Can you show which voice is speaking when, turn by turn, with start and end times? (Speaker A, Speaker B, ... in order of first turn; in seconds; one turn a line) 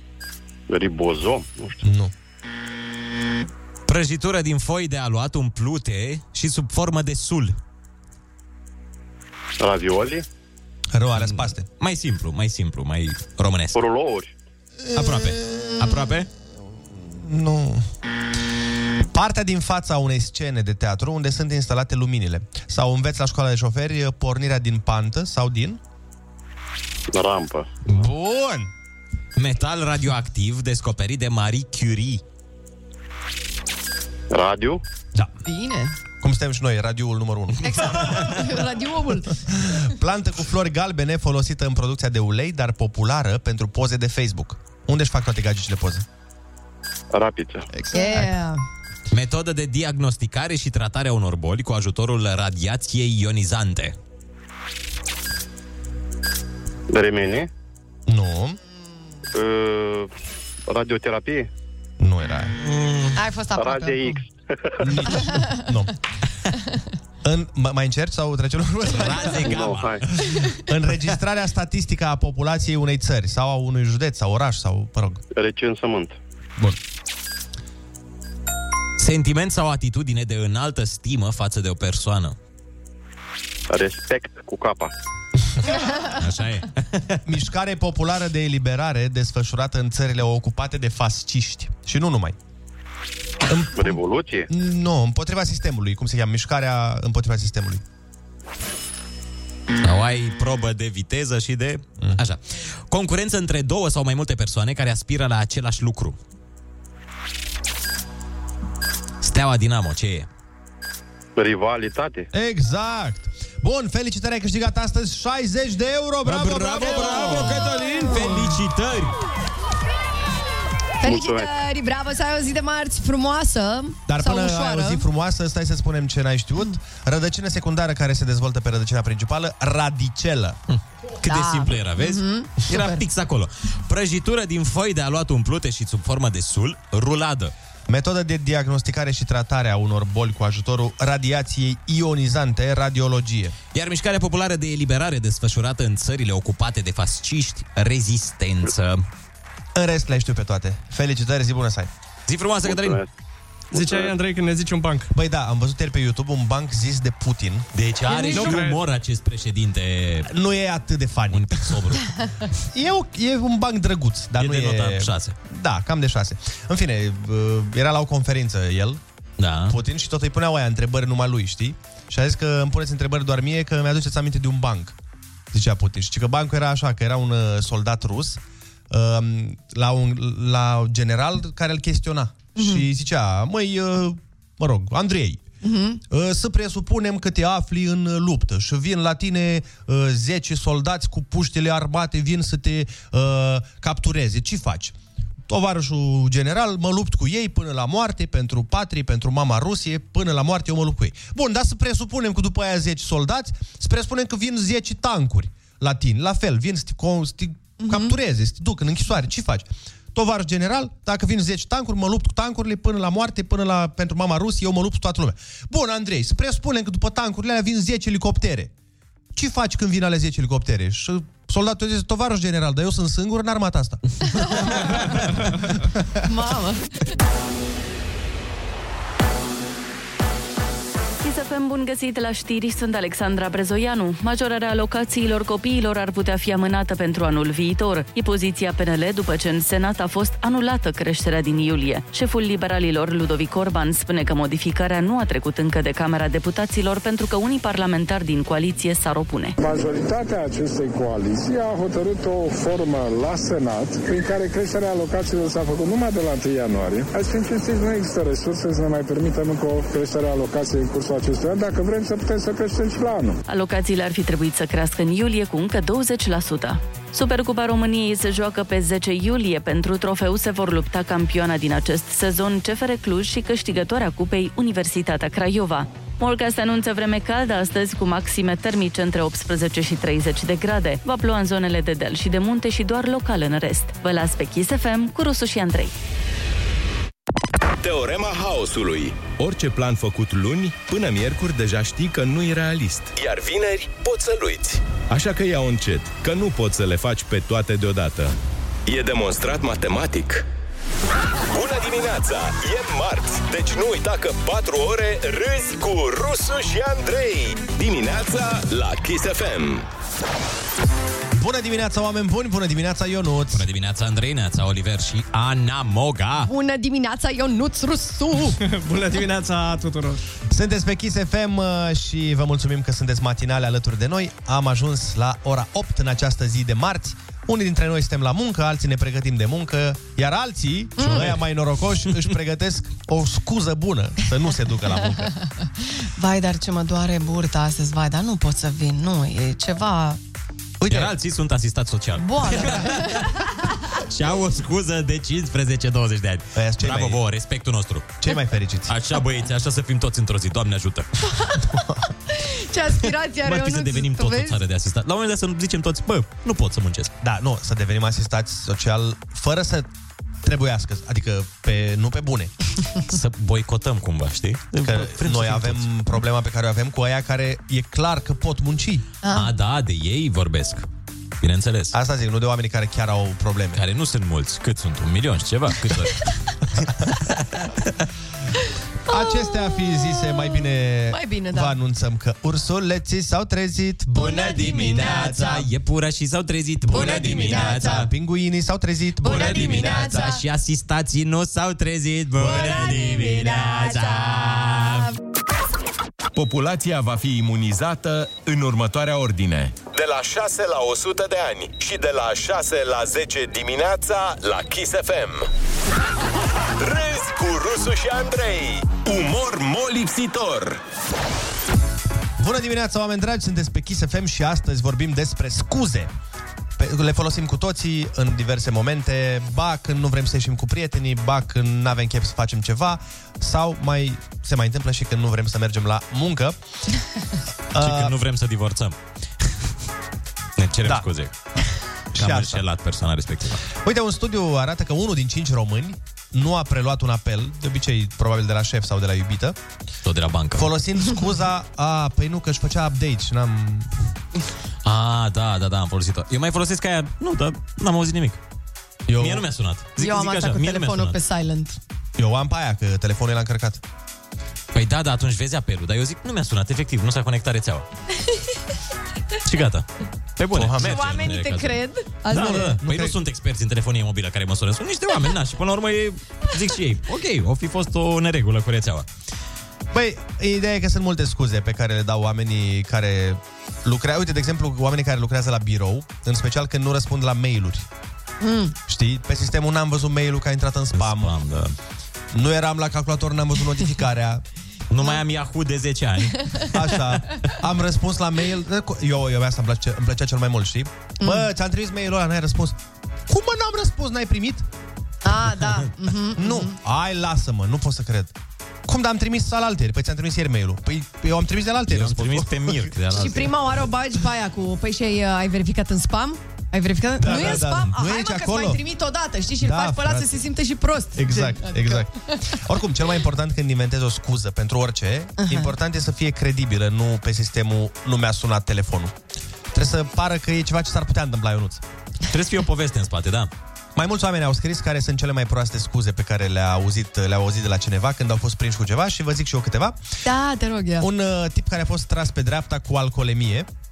Speaker A: 0.7-1.8
Speaker B: 1.8-2.1
Speaker C: 3.9-7.5
Speaker A: 9.6-10.2
Speaker B: 10.9-11.7
Speaker C: 11.2-13.8
Speaker A: 13.7-14.3
Speaker B: 14.8-15.9
Speaker C: 14.9-16.3
Speaker B: 16.9-17.8
Speaker B: 19.1-25.8
Speaker A: 27.1-27.7
Speaker B: 27.9-28.7
Speaker C: 29.4-32.2
Speaker A: 34.3-34.8
Speaker D: 35.4-35.9
Speaker B: 36.2-38.3
Speaker D: 37.6-39.3
Speaker B: 39.6-46.0
Speaker A: 47.1-47.7
Speaker B: 47.7-48.3
Speaker D: 47.9-48.6
Speaker C: 49.1-53.9
Speaker A: 56.9-57.5
Speaker B: 58.1-58.6
Speaker A: 59.3-60.1
Speaker A: 60.7-61.5
Speaker B: 62.0-62.5
Speaker D: 63.1-64.2
Speaker A: 63.5-65.0
Speaker B: 64.8-65.9
Speaker D: 65.0-65.6
Speaker B: 67.2-69.8
Speaker C: 68.9-70.1
Speaker A: 69.5-70.0
Speaker B: 70.6-75.2
Speaker A: 75.3-76.2
Speaker C: 79.0-82.3
Speaker A: 83.7-84.9
Speaker C: 86.2-87.2
Speaker B: 87.2-92.3
Speaker B: 93.5-94.0
Speaker A: 93.7-94.5
Speaker B: 94.5-97.8
Speaker C: 99.8-102.4
Speaker C: 102.9-106.2
Speaker C: 109.2-110.3
Speaker A: 111.4-112.3
Speaker B: 112.3-117.7
Speaker C: 116.2-119.1
Speaker E: 117.1-117.9
Speaker D: 117.7-118.4
Speaker D: 121.0-125.0
Speaker A: 121.0-121.5
Speaker B: 124.1-130.6
Speaker C: 130.7-137.5
Speaker D: 131.2-133.0
Speaker B: 137.9-143.6
Speaker C: 143.7-149.0
Speaker B: 149.7-151.9
Speaker C: 152.3-153.0
Speaker A: 152.6-153.1
Speaker A: 153.7-154.1
Speaker E: 153.7-155.1
Speaker B: 155.1-157.7
Speaker C: 157.7-160.3
Speaker D: 158.1-158.5
Speaker E: 158.3-158.8
Speaker B: 160.2-161.9
Speaker C: 161.3-162.1
Speaker B: 162.7-169.0
Speaker C: 164.4-165.3
Speaker C: 169.4-169.8
Speaker B: 169.7-174.9
Speaker B: 175.5-185.4
Speaker D: 182.6-182.8
Speaker D: 185.6-186.0
Speaker B: 186.1-194.9
Speaker B: 195.5-218.7
Speaker D: 207.8-208.1
Speaker B: 219.3-224.7
Speaker D: 224.4-224.9
Speaker D: 226.2-226.9
Speaker F: 231.2-249.6
Speaker G: 249.6-263.4
Speaker F: 263.5-285.9
Speaker H: 287.8-289.4
Speaker I: 289.4-293.1
Speaker H: 293.0-295.1
Speaker I: 295.1-298.3
Speaker H: 298.9-300.4
Speaker H: 301.5-309.9
Speaker B: 311.3-313.6
Speaker C: 313.5-316.5
Speaker D: 316.4-318.6
Speaker E: 318.6-320.2
Speaker B: 320.5-335.3
Speaker C: 331.0-331.4
Speaker D: 336.2-340.2
Speaker B: 340.8-341.1
Speaker C: 340.9-343.3
Speaker D: 342.2-343.3
Speaker C: 343.9-348.2
Speaker B: 346.5-347.2
Speaker B: 348.2-348.9
Speaker C: 348.9-351.1
Speaker D: 351.3-351.6
Speaker D: 352.3-354.6
Speaker C: 353.4-357.1
Speaker B: 357.2-359.9
Speaker B: 360.4-362.5
Speaker C: 363.1-365.9
Speaker B: 364.8-369.1
Speaker D: 369.2-369.5
Speaker C: 369.3-370.9
Speaker C: 371.4-371.9
Speaker B: 371.9-373.8
Speaker C: 373.8-376.2
Speaker C: 376.8-377.6
Speaker B: 379.1-385.6
Speaker D: 379.1-380.3
Speaker D: 381.1-381.7
Speaker C: 384.1-388.1
Speaker D: 384.2-385.6
Speaker D: 386.9-388.0
Speaker B: 386.9-390.4
Speaker D: 389.2-390.4
Speaker C: 389.2-395.1
Speaker D: 392.4-394.0
Speaker H: 396.4-405.5
Speaker I: 396.5-399.7
Speaker H: 406.8-410.8
Speaker B: 412.4-416.1
Speaker B: 416.8-426.6
Speaker B: 427.7-428.1
Speaker C: 427.8-428.9
Speaker C: 430.6-431.3
Speaker B: 432.1-432.6
Speaker C: 432.1-433.6
Speaker B: 433.8-439.6
Speaker C: 440.0-440.7
Speaker B: 440.6-443.9
Speaker C: 444.8-448.4
Speaker B: 449.1-449.4
Speaker C: 449.2-451.2
Speaker D: 450.0-451.8
Speaker B: 452.2-453.8
Speaker C: 454.7-457.9
Speaker C: 459.4-459.9
Speaker C: 460.4-469.1
Speaker B: 460.5-461.2
Speaker D: 460.8-462.8
Speaker B: 462.5-463.1
Speaker B: 469.9-477.9
Speaker D: 478.4-478.7
Speaker B: 478.9-481.3
Speaker C: 480.9-481.7
Speaker B: 482.3-484.4
Speaker C: 484.9-487.0
Speaker B: 486.7-494.6
Speaker D: 491.2-491.4
Speaker D: 495.2-496.7
Speaker B: 496.4-498.3
Speaker B: 498.9-502.9
Speaker C: 501.9-503.5
Speaker D: 503.1-512.1
Speaker B: 507.2-508.8
Speaker B: 509.6-510.4
Speaker B: 511.1-519.1
Speaker D: 515.4-515.7
Speaker B: 519.7-521.8
Speaker C: 522.3-523.5
Speaker B: 523.9-530.0
Speaker D: 530.2-531.0
Speaker B: 531.0-533.7